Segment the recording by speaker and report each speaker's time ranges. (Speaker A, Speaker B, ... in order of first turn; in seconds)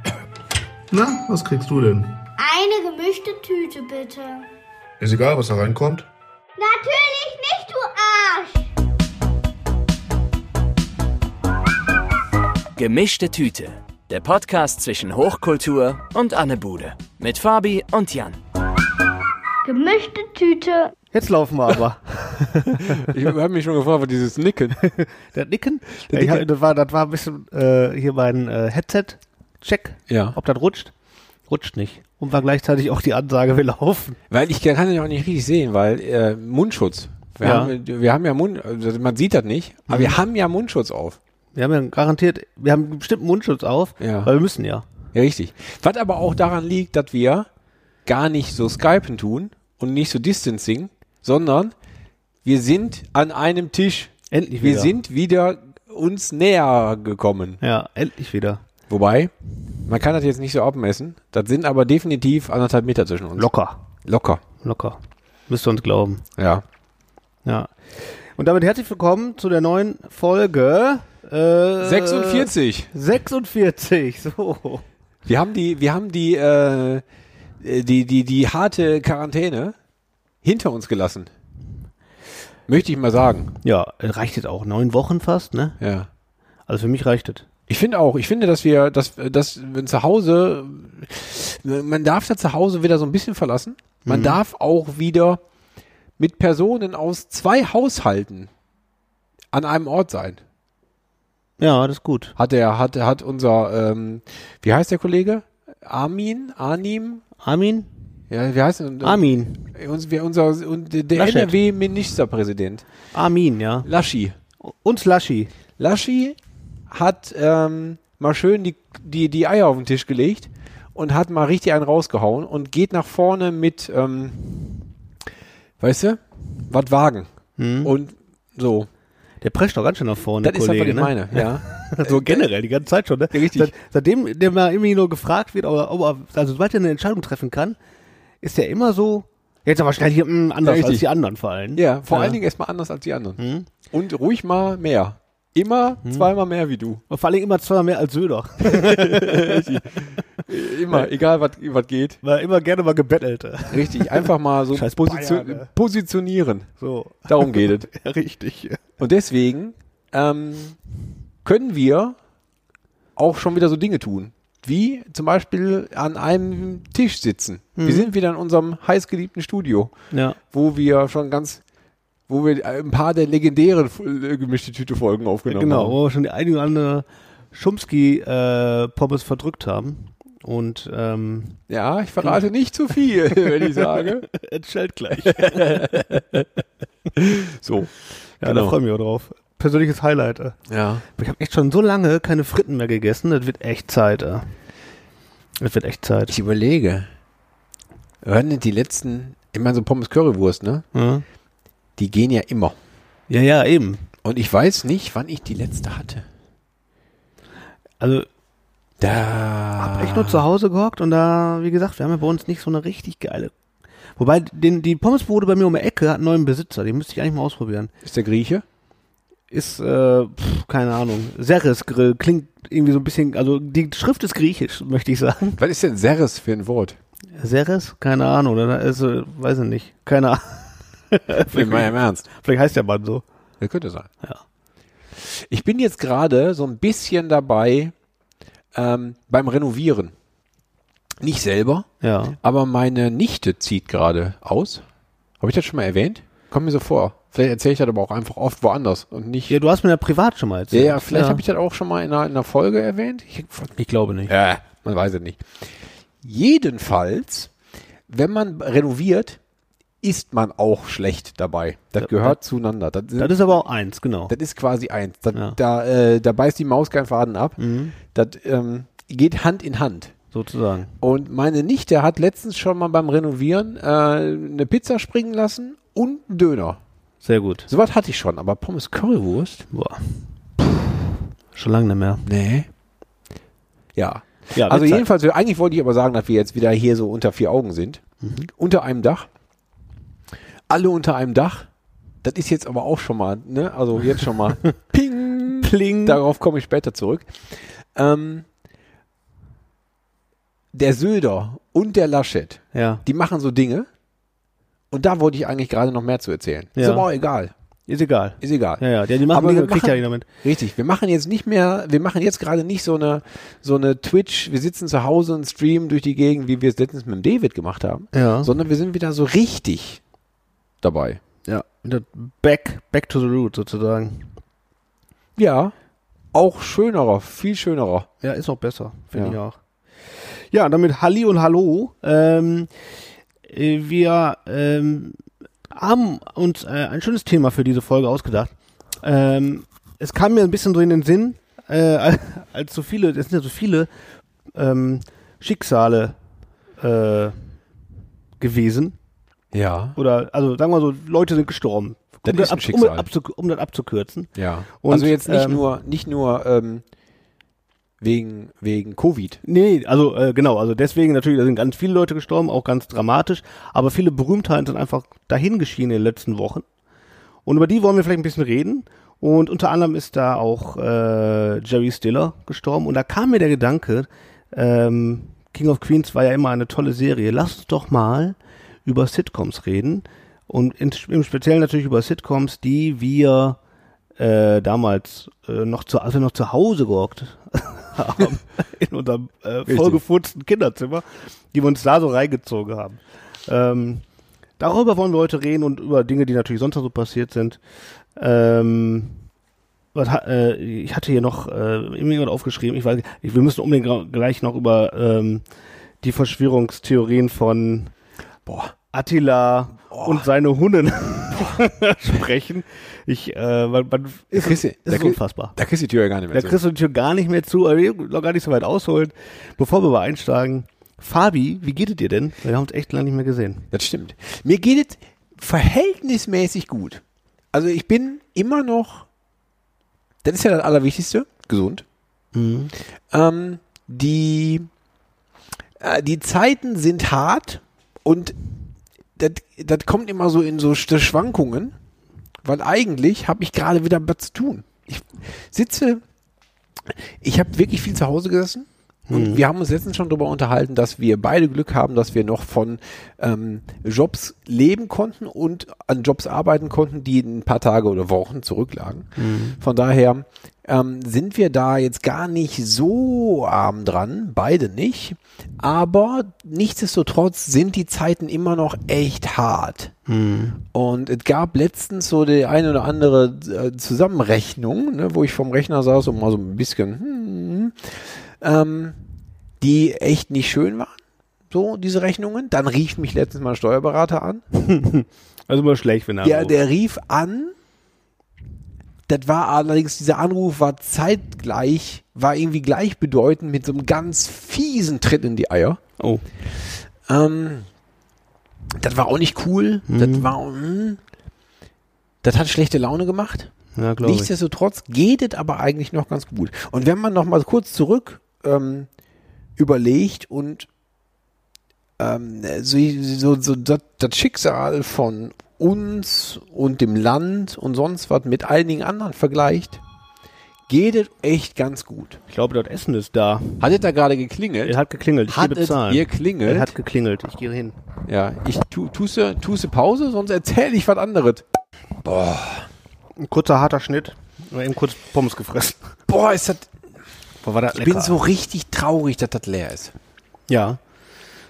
Speaker A: 0.9-2.1, 5.0-6.0
Speaker B: 1.0-2.0, 21.1-23.1, 24.8-30.9, 31.5-34.2, 37.4-37.8, 39.9-40.2, 41.5-44.9, 54.3-54.9, 57.6-58.6, 63.4-63.8, 64.6-65.0, 65.5-66.2, 67.5-74.8, 83.6-85.8, 86.7-87.5, 94.0-94.4, 101.6-102.3, 107.4-107.9, 109.0-109.6, 111.1-111.6, 113.1-113.9, 114.6-115.5, 127.6-127.9, 129.4-137.8, 138.4-142.4, 143.4-143.7, 147.1-150.2, 152.2-155.7, 156.8-158.8, 167.8-168.1, 170.1-170.4, 175.5-181.6, 183.3-186.2, 188.4-190.6, 191.1-194.5, 195.6-196.4, 200.9-201.2, 203.3-204.1, 208.0-208.3, 209.8-213.5, 214.2-217.9, 219.5-225.6, 227.4-233.2, 242.0-242.4, 249.5-251.4, 253.8-254.3, 262.0-262.4, 263.2-264.3, 267.6-268.0, 270.3-270.9, 277.2-277.7, 279.7-281.0, 281.5-282.3, 284.5-285.1, 288.2-288.5, 295.6-296.2, 302.7-303.0, 306.8-307.1, 307.9-310.3, 318.1-318.5, 321.5-324.3, 328.2-329.6, 330.2-332.7, 333.5-335.2, 335.7-343.9, 344.5-346.2, 346.8-347.4, 348.4-349.0, 350.0-355.6, 359.4-366.7, 367.5-383.6, 384.2-394.0, 394.6-397.6, 398.2-399.2, 399.9-405.4, 406.0-407.9, 408.9-415.6, 416.3-423.7, 432.3-432.7, 449.1-449.4, 459.2-459.6, 470.1-470.6, 484.5-486.6, 496.0-496.2, 499.9-500.3, 503.8-504.3, 522.3-523.7, 524.7-527.8, 533.2-536.0, 537.4-538.2, 540.5-540.8
Speaker C: 2.4-4.5, 6.6-8.7, 19.6-20.9
Speaker D: 12.8-18.4
Speaker E: 22.8-24.8, 26.1-26.5, 30.1-30.4, 34.3-41.2, 44.0-44.3, 45.1-47.5, 48.1-51.7, 52.5-57.6, 58.9-59.3, 59.9-63.5, 64.0-64.4, 66.4-66.7, 71.8-72.9, 75.2-77.0, 77.6-79.8, 80.4-81.3, 82.7-83.5, 85.8-86.1, 87.7-95.4, 96.2-98.5, 99.5-100.4, 102.4-107.2, 108.3-112.8, 113.8-114.4, 115.8-116.4, 116.9-124.5, 125.8-127.3, 127.8-128.9, 130.4-132.5, 133.3-133.7, 140.6-141.1, 141.8-147.0, 148.7-152.2, 153.7-156.7, 157.3-157.9, 159.0-160.8, 161.4-162.2, 163.2-169.9, 170.5-171.6, 172.3-176.0, 181.7-184.3, 185.2-186.5, 187.1-188.8, 190.7-191.0, 196.3-197.1, 198.2-200.8, 202.0-202.8, 204.2-206.2, 209.0-210.4, 218.0-218.6, 225.6-227.0, 231.5-232.3, 233.6-234.1, 235.2-237.9, 238.7-240.1, 241.2-241.9, 242.4-244.8, 245.4-249.6, 250.7-253.7, 254.3-257.5, 258.1-259.4, 260.0-263.4, 264.3-270.1, 271.0-276.8, 277.7-279.7, 282.2-282.7, 283.9-289.3, 290.7-291.7, 292.2-298.5, 300.7-303.9, 304.9-307.5, 308.4-320.0, 320.8-321.2, 325.4-325.7, 326.3-328.1, 349.5-350.0, 352.2-353.1, 354.4-356.9, 358.0-359.4, 389.7-390.0, 408.5-408.7, 409.9-410.3, 414.3-416.6, 423.7-427.0, 427.5-429.1, 430.2-431.9, 433.1-434.7, 435.8-438.4, 439.2-441.8, 442.4-446.0, 446.9-469.9, 470.7-479.0, 479.6-481.0, 481.5-484.4, 486.2-487.5, 489.1-495.8, 497.1-497.7, 498.8-501.0, 502.2-508.9, 509.6-510.7, 512.0-519.8, 520.7-522.2, 523.6-524.8, 525.3-526.7, 528.1-531.5, 532.0-532.7, 536.1-536.7, 537.7-539.9